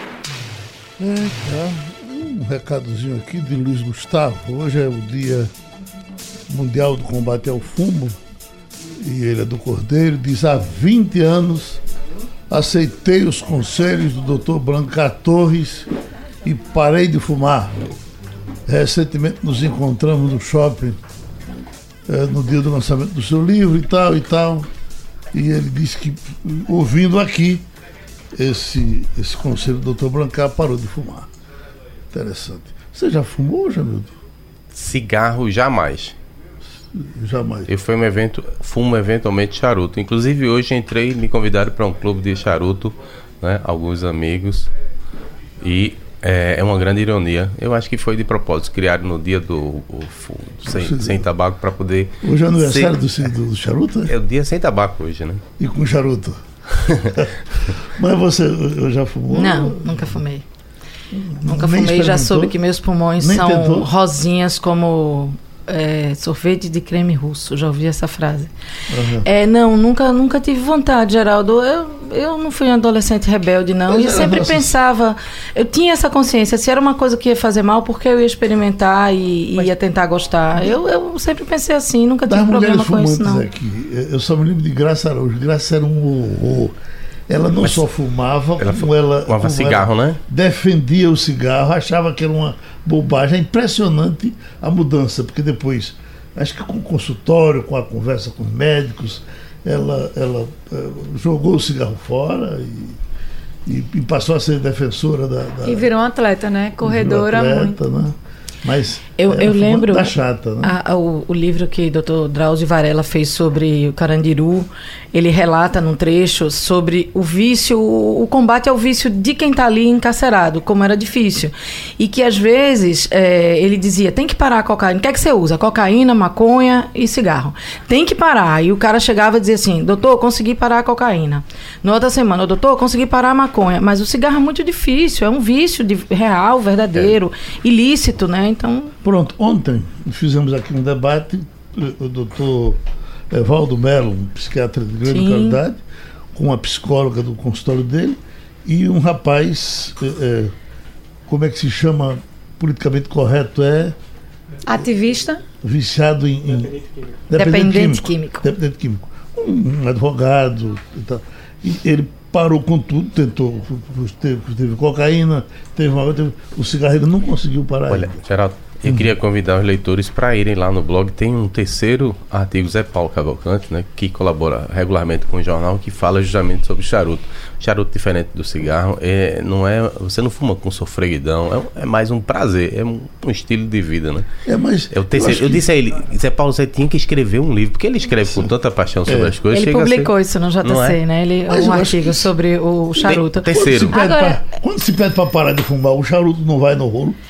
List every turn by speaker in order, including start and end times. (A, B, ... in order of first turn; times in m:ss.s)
0:01.0-0:05.5 A
0:06.5-0:08.2 A
0:09.0-0:11.8 A
0:12.5-0:15.9 A
0:16.4-0:17.8 A
0:18.7-0:21.0 A
0:22.1-0:24.7 A
0:25.3-0:27.6 A
0:28.3-0:31.3 A
0:32.1-0:34.2 A
0:34.7-0:36.2 B
0:36.9-0:37.7 A
0:37.7-0:44.7 B
0:45.6-0:53.2 B
0:50.6-0:51.2 A
0:52.2-0:54.1 A
0:54.0-0:55.4 B
0:55.6-0:56.4 A
0:57.0-1:00.2 A
0:59.3-1:00.4 C
1:01.1-1:02.5 A
1:01.5-1:08.5 C
1:03.2-1:03.9 A
1:08.9-1:09.2 A
1:09.2-1:23.4 C
1:13.9-1:14.7 A
1:22.3-1:26.7 A
1:27.3-1:43.0 A
1:28.6-1:30.2 B
1:43.6-1:45.9 A
1:45.6-1:47.8 D
1:46.8-1:50.7 A
1:49.2-2:18.9 C
2:19.0-2:22.8 A
2:23.3-2:25.8 A
2:25.0-2:25.6 C
2:26.3-2:30.5 A
2:31.3-2:34.0 A
2:34.7-2:35.4 D
2:35.6-2:48.2 A
2:37.3-2:38.5 C
2:47.9-3:04.3 B
3:04.4-3:05.6 A
3:04.9-3:10.1 B
3:08.2-3:08.5 A
3:09.0-3:09.4 A
3:09.5-3:13.5 C
3:10.6-3:11.0 B
3:11.5-3:12.3 A
3:12.9-3:17.2 A
3:13.1-3:13.9 B
3:13.9-3:14.4 D